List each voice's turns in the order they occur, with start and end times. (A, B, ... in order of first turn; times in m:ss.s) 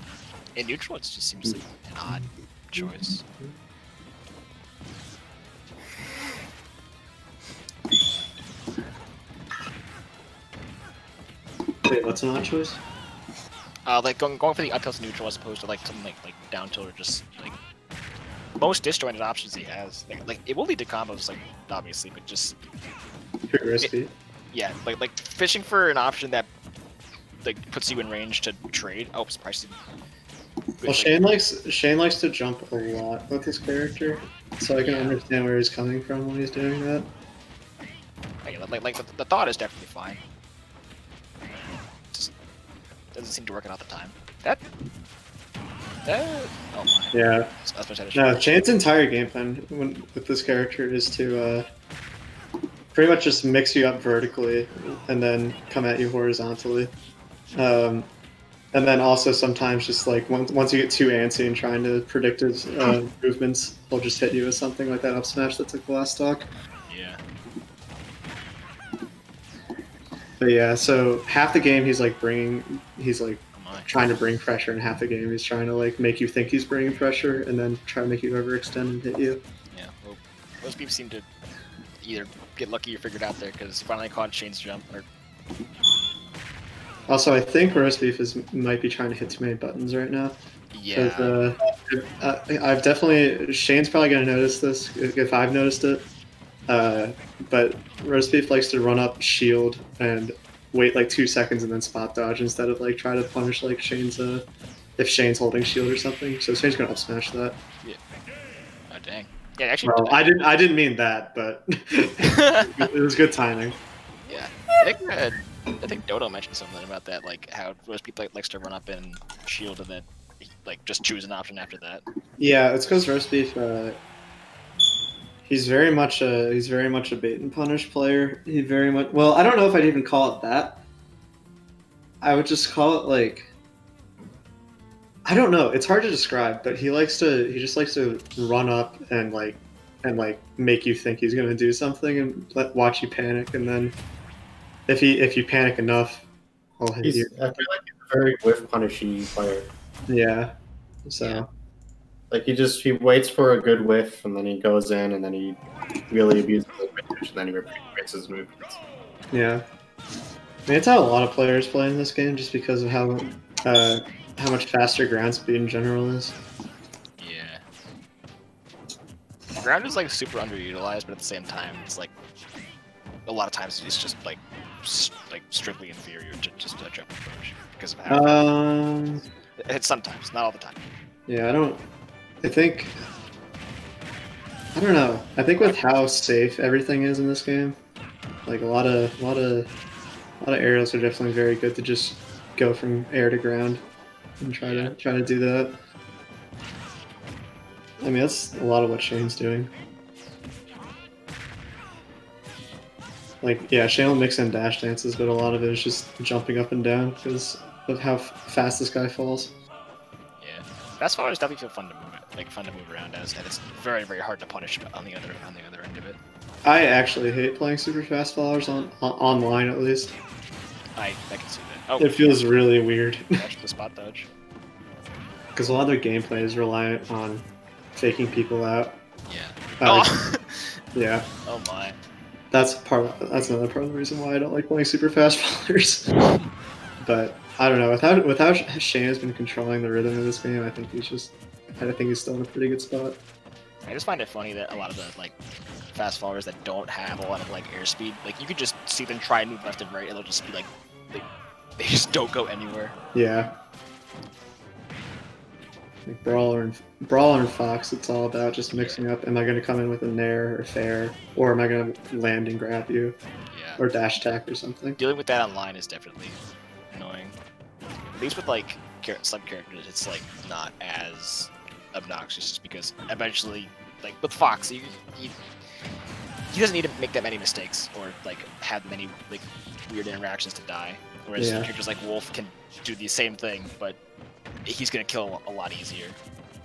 0:00.6-0:03.2 A
0:02.1-0:02.9 B
0:11.9-0:12.8 B
0:13.9-0:17.6 A
0:18.6-0:22.6 A
0:23.5-0:24.1 B
0:24.5-0:26.5 A
0:27.4-0:29.8 A
0:30.8-0:31.2 A
0:30.8-0:37.1 B
0:34.8-0:35.2 A
0:38.4-0:40.2 A
0:42.1-0:42.3 A
0:43.1-0:44.6 A
0:46.0-0:48.4 A
0:47.1-0:47.5 B
0:48.1-0:51.6 B
0:52.9-0:56.9 B
0:57.5-0:58.1 B
0:58.7-1:06.5 B
1:06.9-1:07.2 A
1:10.4-1:19.4 B
1:13.5-1:13.9 A
1:19.7-1:21.3 A
1:22.0-1:25.1 A
1:27.1-1:30.4 B
1:30.7-1:31.4 A
1:30.9-1:36.1 B
1:36.7-1:44.5 B
1:45.0-1:47.6 B
1:48.9-1:50.2 A
1:49.8-1:53.8 B
1:52.2-1:52.7 A
1:54.3-2:02.0 A
2:02.4-2:04.0 B
2:05.5-2:10.8 B
2:12.2-2:13.5 B
2:15.3-2:24.0 B
2:24.9-2:26.3 B
2:26.8-2:27.3 B
2:27.0-2:29.7 C
2:30.1-2:30.5 B
2:31.1-2:31.5 B
2:31.2-2:31.4 A
2:32.3-2:38.8 C
2:39.3-2:39.6 B
2:40.7-2:46.4 B
2:47.2-2:47.6 A
2:49.6-2:52.1 A
2:53.3-2:58.4 A
2:58.1-2:59.2 B
2:59.6-3:01.0 A
3:01.3-3:01.8 B
3:02.4-3:03.0 B
3:04.7-3:07.8 B
3:05.6-3:05.8 A
3:08.5-3:09.7 B
3:10.4-3:13.8 B
3:14.4-3:15.8 B
3:14.6-3:15.0 A
3:18.0-3:19.7 B
3:23.4-3:29.6 B
3:30.4-3:36.2 A
3:36.6-3:40.2 B
3:41.0-3:42.4 A
3:42.0-3:43.4 B
3:43.4-3:44.3 A
3:45.6-3:49.0 B
3:49.3-3:50.8 A
3:49.8-3:50.1 B
3:51.0-3:51.3 B
3:51.5-3:52.0 A
3:52.5-3:56.1 B
3:56.2-3:56.5 A
3:57.0-4:03.2 B
4:03.8-4:05.4 A
4:05.9-4:11.3 A
4:11.8-4:13.0 A
4:13.1-4:13.6 B
4:16.1-4:23.2 B
4:18.7-4:19.0 A
4:23.5-4:23.8 A
4:23.8-4:25.0 B
4:25.0-4:27.4 A
4:28.1-4:35.4 A
4:36.5-4:44.0 A
4:41.4-4:41.7 B
4:44.6-4:46.2 A